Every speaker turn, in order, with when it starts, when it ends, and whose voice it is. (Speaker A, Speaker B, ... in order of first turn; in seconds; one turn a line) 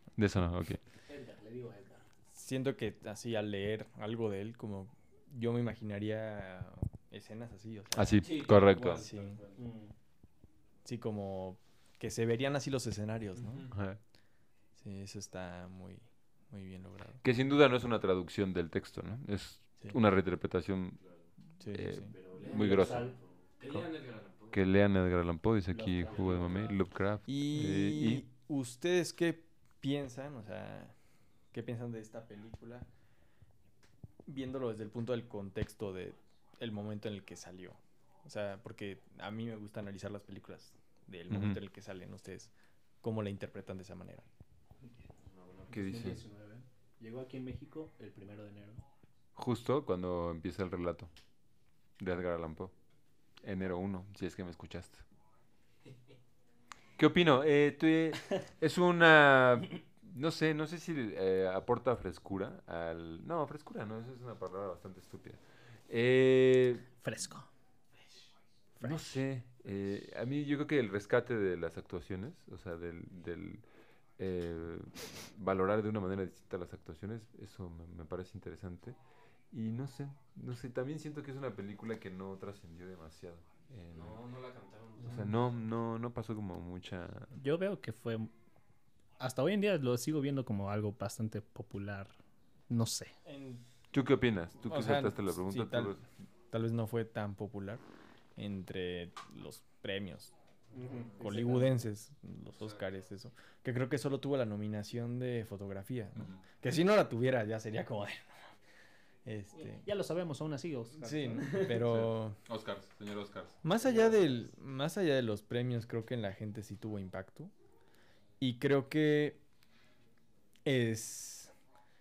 Speaker A: 0.2-0.8
Speaker B: 1.1-2.0
Speaker C: 2.3-9.4
Speaker A: 7.9-9.1
Speaker D: 8.2-9.6
Speaker B: 8.5-8.8
Speaker B: 9.5-9.9
Speaker C: 10.8-13.7
Speaker D: 13.4-13.7
Speaker A: 13.7-14.0
Speaker C: 14.8-17.2
Speaker A: 17.2-21.0
Speaker D: 21.0-21.3
Speaker C: 21.6-22.1
Speaker A: 21.7-23.1
Speaker D: 22.0-24.6
Speaker B: 22.4-23.2
Speaker A: 24.5-28.2
Speaker B: 25.7-26.7
Speaker D: 26.2-26.7
Speaker C: 27.3-30.9
Speaker C: 31.5-32.9
Speaker C: 34.3-44.3
Speaker A: 41.3-41.6
Speaker B: 45.6-48.8
Speaker A: 45.7-46.2
Speaker A: 49.4-51.1
Speaker A: 52.0-52.7
Speaker A: 53.4-55.0
Speaker A: 57.0-66.9
Speaker B: 67.0-67.5
Speaker A: 68.8-73.6
Speaker A: 74.2-79.0
Speaker A: 79.5-84.2
Speaker D: 83.9-85.6
Speaker A: 85.0-87.3
Speaker B: 87.4-88.3
Speaker B: 89.2-92.2
Speaker B: 92.7-93.1
Speaker C: 93.2-93.6
Speaker A: 93.9-96.0
Speaker C: 94.7-96.0
Speaker C: 96.5-97.8
Speaker C: 98.4-100.3
Speaker B: 100.7-101.7
Speaker C: 101.2-108.5
Speaker A: 106.2-106.4
Speaker C: 109.2-109.9
Speaker B: 109.6-111.9
Speaker C: 111.0-112.4
Speaker A: 112.5-113.6
Speaker C: 113.6-117.5
Speaker C: 118.4-119.4
Speaker C: 120.7-121.5